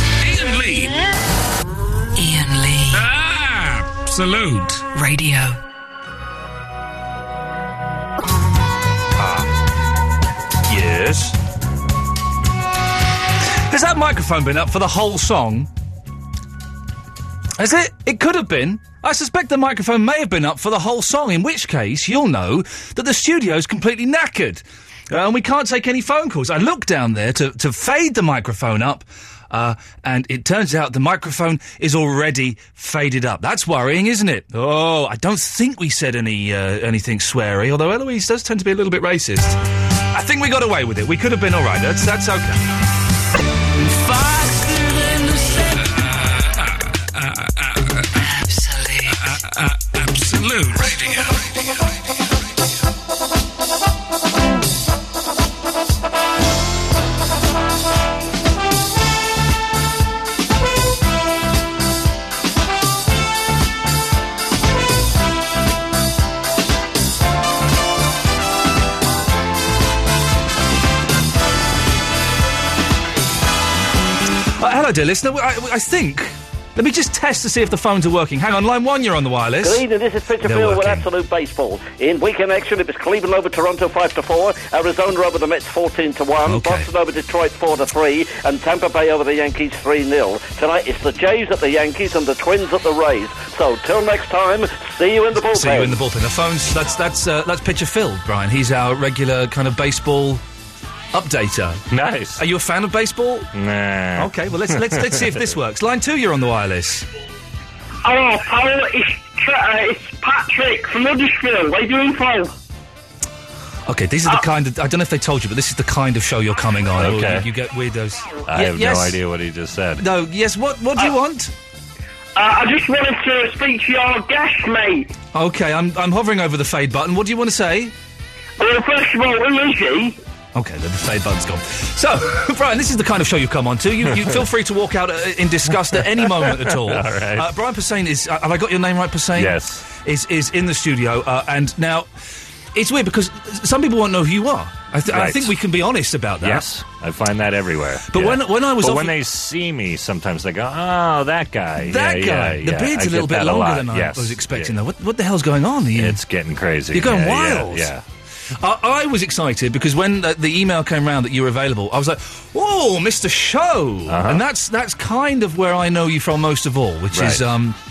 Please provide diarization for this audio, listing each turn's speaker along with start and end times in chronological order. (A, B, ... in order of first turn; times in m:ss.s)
0:00.2-0:01.0 A
0:02.2-0:03.1 B
0:02.9-0:04.9 A
0:04.9-0:05.6 B
0:09.2-0:09.5 C
0:10.7-0:11.4 C
0:13.7-0:15.7 C
0:17.6-0:39.6 C
0:40.1-0:42.6 C
0:44.1-0:48.1 A
0:48.2-0:49.4 B
0:49.1-0:51.7 A
1:14.6-1:19.8 C
1:19.6-1:36.0 D
1:20.4-1:21.1 C
1:26.4-1:26.9 C
1:35.3-1:40.4 C
1:41.1-1:41.8 C
1:41.9-1:42.4 E
1:42.4-1:43.5 C
1:43.5-1:45.4 E
1:44.2-1:47.0 C
1:48.0-1:52.5 F
1:53.9-1:59.2 C
1:57.0-1:57.5 E
1:58.5-2:00.1 E
2:00.0-2:01.5 C
2:02.4-2:05.1 F
2:05.3-2:07.9 C
2:08.6-2:10.2 F
2:10.5-2:22.1 C
2:16.4-2:17.5 E
2:19.4-2:19.8 E
2:22.7-2:26.6 C
2:25.1-2:25.5 E
2:26.4-2:34.8 E
2:28.1-2:29.2 C
2:31.8-2:36.2 C
2:36.0-2:38.0 E
2:36.9-2:37.9 C
2:38.6-2:47.8 C
2:44.1-2:44.4 E
2:47.1-2:47.4 E